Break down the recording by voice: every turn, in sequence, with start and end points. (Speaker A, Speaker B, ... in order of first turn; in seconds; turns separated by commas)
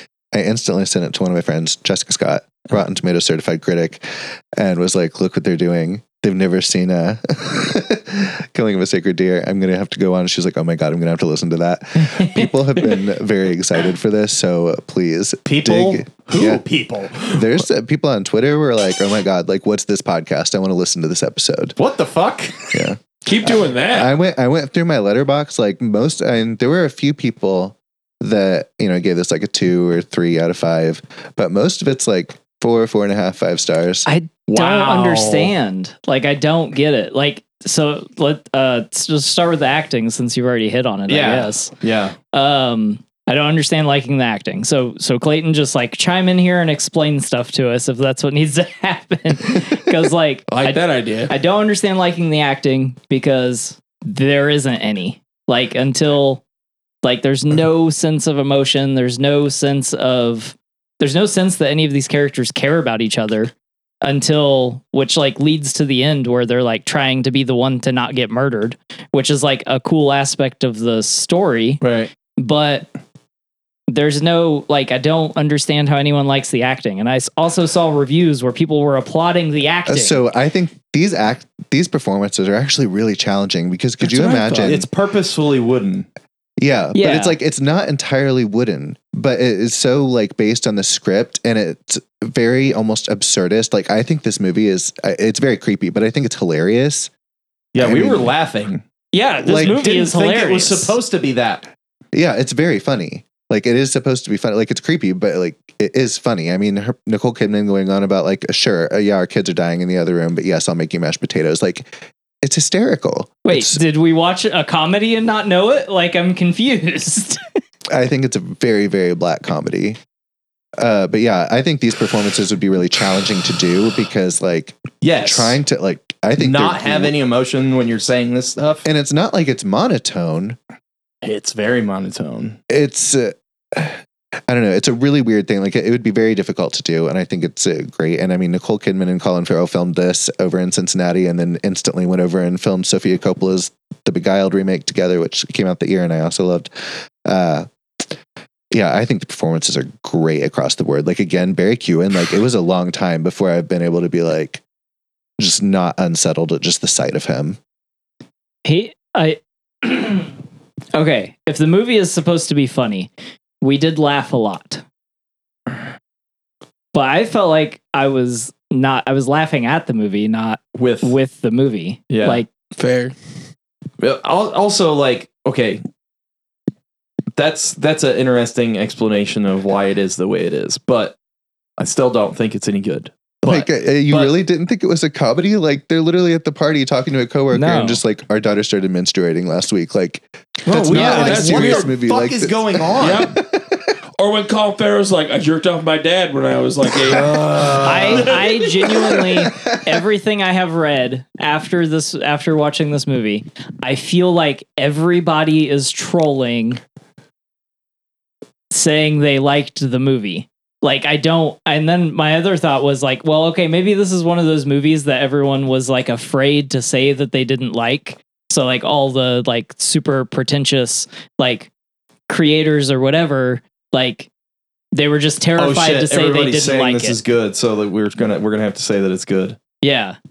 Speaker A: 0.3-16.6, Speaker B: 12.1-12.4, Speaker C: 15.4-17.6, Speaker A: 17.3-21.8, Speaker C: 21.8-22.8, Speaker A: 22.7-34.1, Speaker D: 23.2-24.1, Speaker B: 34.0-41.7, Speaker C: 34.5-35.5, Speaker C: 41.1-42.1, Speaker B: 42.3-56.4, Speaker D: 50.5-51.3, Speaker B: 57.0-71.8, Speaker C: 71.8-72.1, Speaker B: 72.4-72.9, Speaker B: 73.9-80.2, Speaker A: 79.9-84.9, Speaker C: 84.1-86.1, Speaker A: 86.6-97.1, Speaker B: 86.9-87.3, Speaker C: 97.7-98.8, Speaker A: 97.8-98.3, Speaker B: 99.1-101.0, Speaker A: 99.5-99.8, Speaker C: 99.5-101.6, Speaker A: 102.1-111.9, Speaker A: 112.4-113.8, Speaker B: 113.4-117.4, Speaker A: 117.9-120.0, Speaker A: 120.8-127.1, Speaker C: 125.0-125.6, Speaker C: 126.4-128.8, Speaker A: 128.8-130.6, Speaker C: 131.2-132.6, Speaker A: 132.7-146.7, Speaker A: 147.2-147.7, Speaker A: 148.7-154.6, Speaker A: 155.4-157.6, Speaker B: 158.6-160.3, Speaker B: 160.9-163.1, Speaker B: 163.6-164.8, Speaker B: 166.9-172.5, Speaker C: 170.7-171.1, Speaker C: 172.1-172.4, Speaker D: 172.8-173.1, Speaker C: 174.0-175.8, Speaker C: 177.4-181.2, Speaker C: 181.8-184.3, Speaker A: 183.4-193.8, Speaker B: 187.5-188.0, Speaker C: 190.7-193.3, Speaker D: 190.7-191.9, Speaker B: 190.9-191.3, Speaker D: 193.0-193.4, Speaker D: 194.2-199.1, Speaker C: 197.0-198.4, Speaker B: 197.8-206.8, Speaker A: 199.4-199.8, Speaker B: 208.7-221.7, Speaker B: 222.3-224.3, Speaker B: 224.9-227.2, Speaker C: 225.6-229.6, Speaker B: 229.8-230.2